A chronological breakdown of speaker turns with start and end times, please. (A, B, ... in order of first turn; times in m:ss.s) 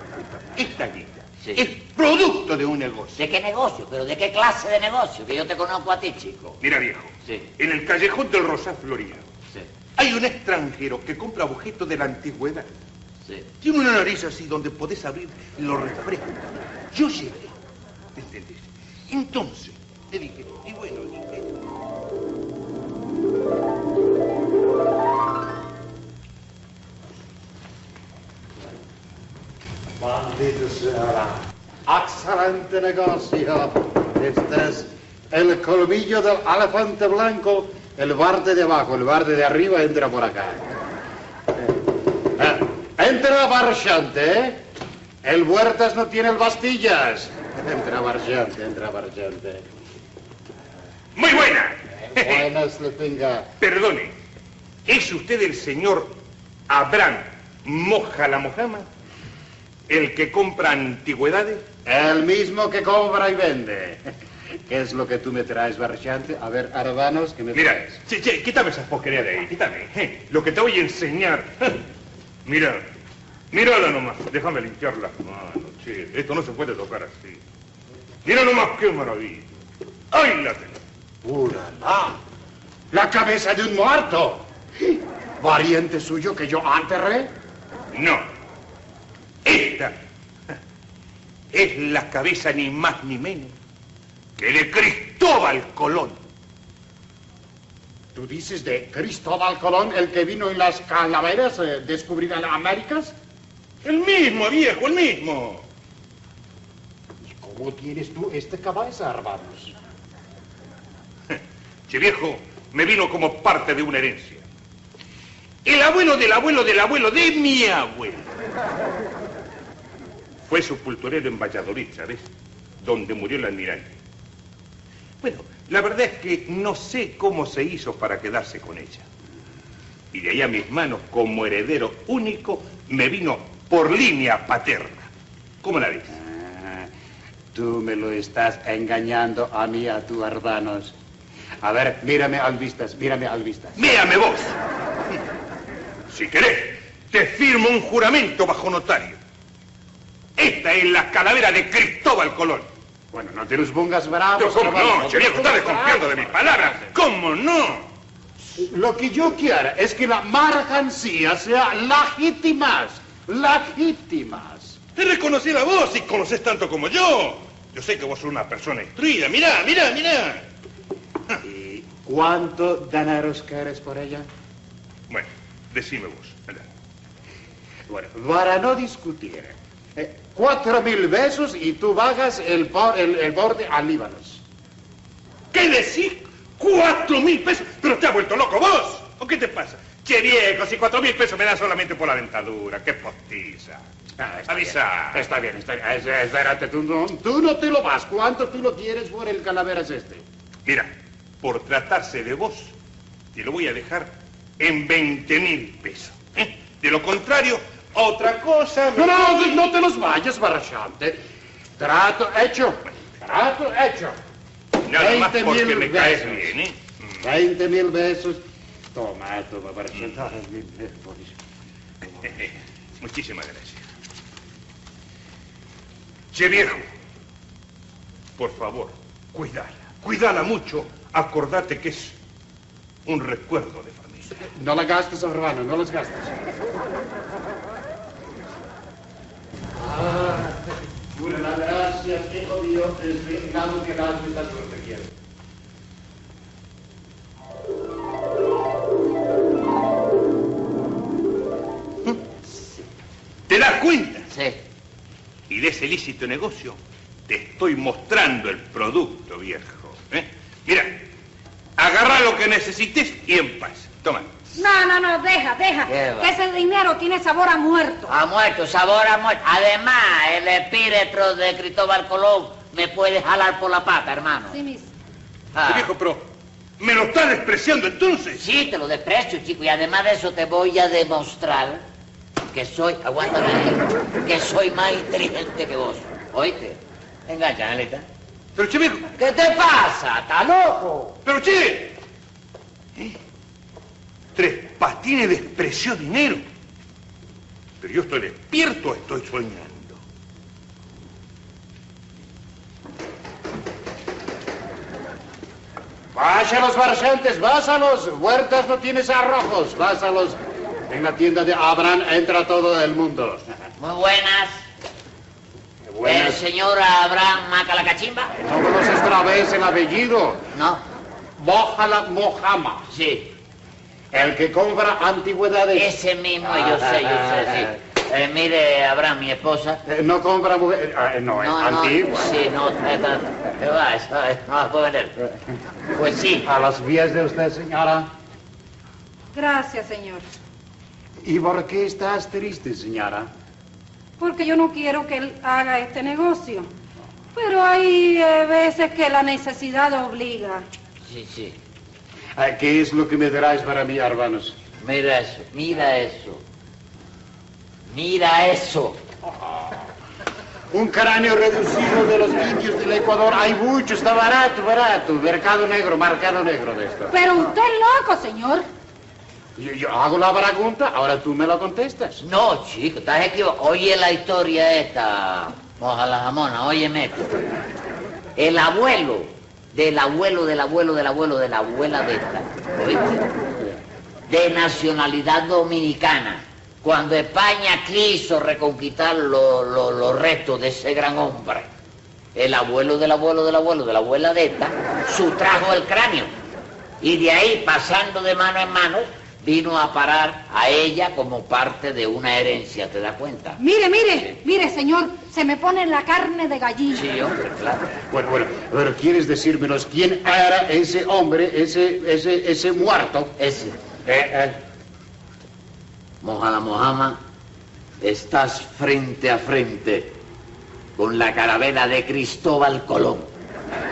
0:00.5-0:03.2 A
0:01.4-0:01.6 B
0:03.2-0:06.6 B
0:06.6-0:09.3 A
0:10.0-0:12.7 A
0:13.6-0:17.5 A
0:18.1-0:21.6 A
0:30.0-0:40.7 C
0:42.4-0:44.6 C
0:45.2-0:49.6 C
0:51.1-0:52.4 A
0:52.1-0:53.5 C
0:53.6-0:54.1 A
0:54.9-0:56.2 A
0:56.7-0:58.9 A
0:59.9-1:01.6 A
1:01.8-1:04.1 C
1:04.7-1:08.0 C
1:07.5-1:11.8 A
1:12.4-1:12.8 A
1:13.5-1:17.4 A
1:18.2-1:19.5 A
1:20.1-1:20.8 A
1:21.2-1:22.2 C
1:22.9-1:27.3 C
1:27.9-1:28.2 A
1:29.4-1:29.9 A
1:31.5-1:33.6 A
1:34.4-1:36.2 A
1:38.1-1:43.1 C
1:43.8-1:45.6 A
1:47.2-1:49.8 C
1:51.3-1:54.4 A
1:55.6-1:58.4 A
2:00.4-2:02.3 A
2:02.8-2:04.0 A
2:05.2-2:09.0 A
2:10.1-2:15.1 A
2:15.6-2:16.1 A
2:16.1-2:16.9 C
2:17.5-2:20.9 C
2:21.6-2:24.0 C
2:23.8-2:24.6 A
2:26.1-2:29.2 A
2:30.4-2:32.7 A
2:33.1-2:36.7 C
2:34.4-2:37.9 A
2:38.6-2:44.8 C
2:45.0-2:50.4 A
2:51.4-2:54.3 C
2:55.1-2:56.6 A
2:57.9-3:04.4 C
3:05.5-3:13.8 A
3:14.2-3:20.2 C
3:14.5-3:15.2 A
3:20.6-3:22.7 A
3:23.3-3:29.4 A
3:28.9-3:31.2 C
3:31.8-3:34.2 C
3:34.8-3:37.1 A
3:34.9-3:36.6 C
3:37.2-3:38.4 C
3:38.9-3:41.4 C
3:42.0-3:43.8 A
3:46.3-3:46.8 A
3:48.4-3:52.2 A
3:53.0-3:54.4 A
3:54.5-3:56.4 C
3:59.8-4:05.1 C
4:13.5-4:14.3 A
4:14.3-4:14.6 B
4:15.5-4:21.0 A
4:21.8-4:24.3 A
4:24.5-4:28.1 D
4:25.9-4:26.3 B
4:28.1-4:34.6 B
4:34.5-4:34.9 D
4:35.5-4:35.9 B
4:35.6-4:36.2 A
4:36.8-4:38.4 A
4:38.4-4:41.8 B
4:42.5-4:48.0 B
4:48.6-4:49.1 A
4:49.2-4:51.2 B
4:51.2-4:52.0 A
4:54.4-4:56.4 A
4:57.8-5:00.0 A
5:06.1-5:13.5 C
5:13.8-5:14.6 B
5:15.9-5:16.4 C
5:16.0-5:18.3 B
5:18.4-5:20.4 C
5:20.5-5:20.8 B
5:21.4-5:22.9 C
5:22.9-5:23.3 B
5:24.1-5:27.7 C
5:25.7-5:29.8 B
5:29.8-5:32.3 C
5:31.4-5:35.2 B
5:36.0-5:36.5 B
5:36.4-5:38.1 C
5:39.3-5:40.2 D
5:41.2-5:43.3 C
5:44.2-5:46.7 D
5:47.3-5:50.6 D
5:51.0-5:51.6 B
5:52.4-5:54.6 C
5:54.8-5:56.4 B
5:57.9-5:59.0 B
6:00.7-6:07.1 C
6:07.1-6:08.7 D
6:09.6-6:12.2 C
6:12.2-6:17.4 B
6:18.4-6:23.3 B
6:24.3-6:31.7 B
6:32.3-6:36.3 B
6:37.0-6:43.6 B
6:43.6-6:47.0 D
6:46.9-6:47.9 B
6:48.1-6:53.3 C
6:53.4-6:53.8 B
6:54.0-6:54.6 C
6:56.2-6:57.2 B
6:58.0-7:00.1 B
7:01.0-7:03.3 B